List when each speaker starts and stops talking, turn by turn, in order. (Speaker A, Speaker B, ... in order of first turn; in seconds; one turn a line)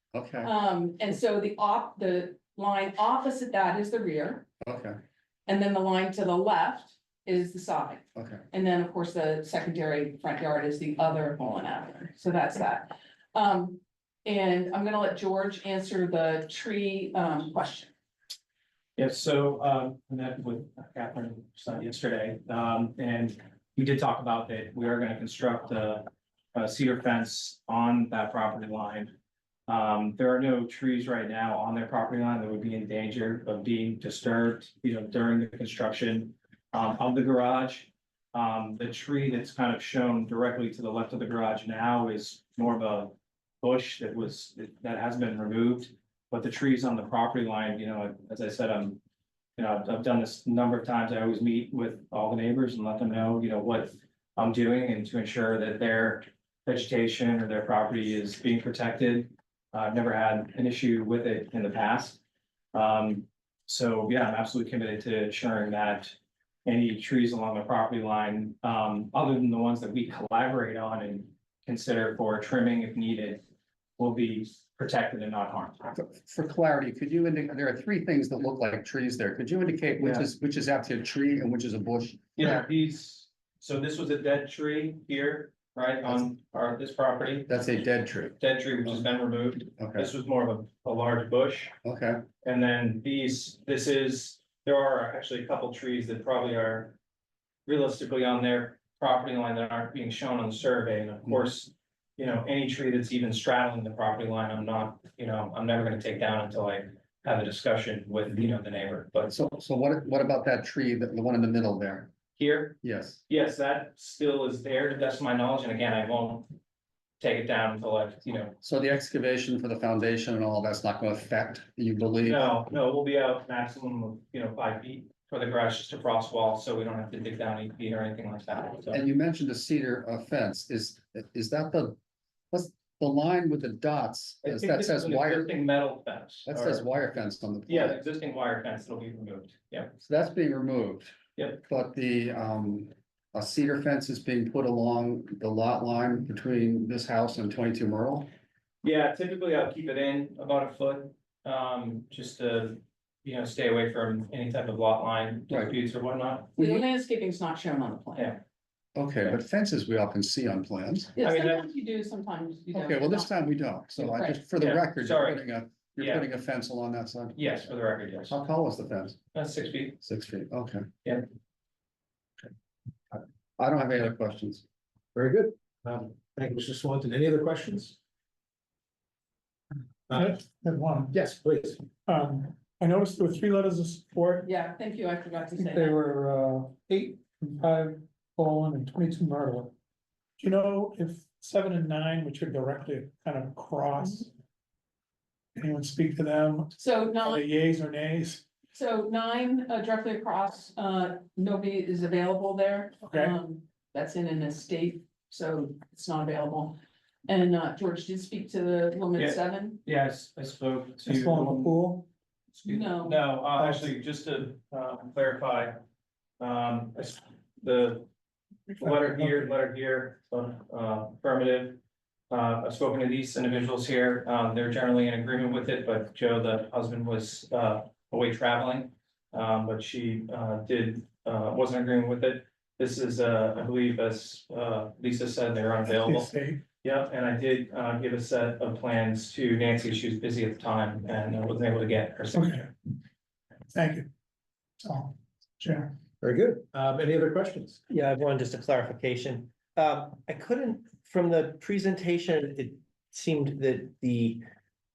Speaker A: 0.1-0.5
Speaker B: 0.4-4.5
Speaker A: 4.6-5.0
Speaker B: 5.5-17.9
Speaker A: 8.2-8.4
Speaker C: 19.0-29.1
Speaker C: 29.7-49.0
Speaker C: 49.6-62.2
Speaker C: 62.7-73.4
Speaker C: 74.0-75.9
Speaker A: 76.0-82.6
Speaker C: 80.0-80.3
Speaker C: 82.4-87.5
Speaker A: 87.5-89.0
Speaker C: 88.4-91.8
Speaker A: 89.8-90.1
Speaker A: 91.8-92.2
Speaker C: 92.4-97.0
Speaker C: 97.7-109.3
Speaker A: 109.3-112.1
Speaker C: 112.4-112.8
Speaker A: 112.8-113.2
Speaker C: 113.3-116.5
Speaker C: 117.2-118.5
Speaker A: 118.6-122.5
Speaker C: 122.2-129.0
Speaker A: 128.9-132.0
Speaker A: 132.5-135.6
Speaker C: 134.4-136.9
Speaker A: 136.5-138.0
Speaker C: 137.7-139.9
Speaker A: 140.0-141.1
Speaker A: 141.7-148.3
Speaker C: 148.8-156.6
Speaker A: 155.5-155.8
Speaker B: 156.6-158.4
Speaker A: 156.6-156.9
Speaker A: 158.9-161.1
Speaker B: 161.2-163.3
Speaker C: 161.2-161.7
Speaker A: 162.7-167.7
Speaker B: 164.0-164.4
Speaker C: 164.6-166.3
Speaker C: 167.4-168.4
Speaker A: 168.3-169.2
Speaker C: 169.3-170.0
Speaker A: 170.0-170.9
Speaker A: 173.1-174.6
Speaker D: 175.2-178.0
Speaker E: 180.1-181.1
Speaker D: 181.1-181.9
Speaker E: 182.1-184.5
Speaker B: 184.4-186.0
Speaker E: 185.6-189.7
Speaker E: 190.4-194.3
Speaker E: 195.6-198.5
Speaker B: 196.8-197.4
Speaker B: 198.7-209.8
Speaker E: 203.0-203.4
Speaker C: 209.2-211.8
Speaker E: 211.1-212.1
Speaker C: 212.6-215.8
Speaker B: 212.7-213.2
Speaker E: 213.5-213.9
Speaker C: 216.4-218.1
Speaker C: 218.8-221.8
Speaker E: 218.8-219.3
Speaker C: 222.3-236.3
Speaker E: 235.9-236.6
Speaker C: 236.8-242.6
Speaker E: 242.3-242.7
Speaker E: 243.7-244.1
Speaker E: 244.8-245.9
Speaker D: 246.2-247.8
Speaker F: 247.9-254.5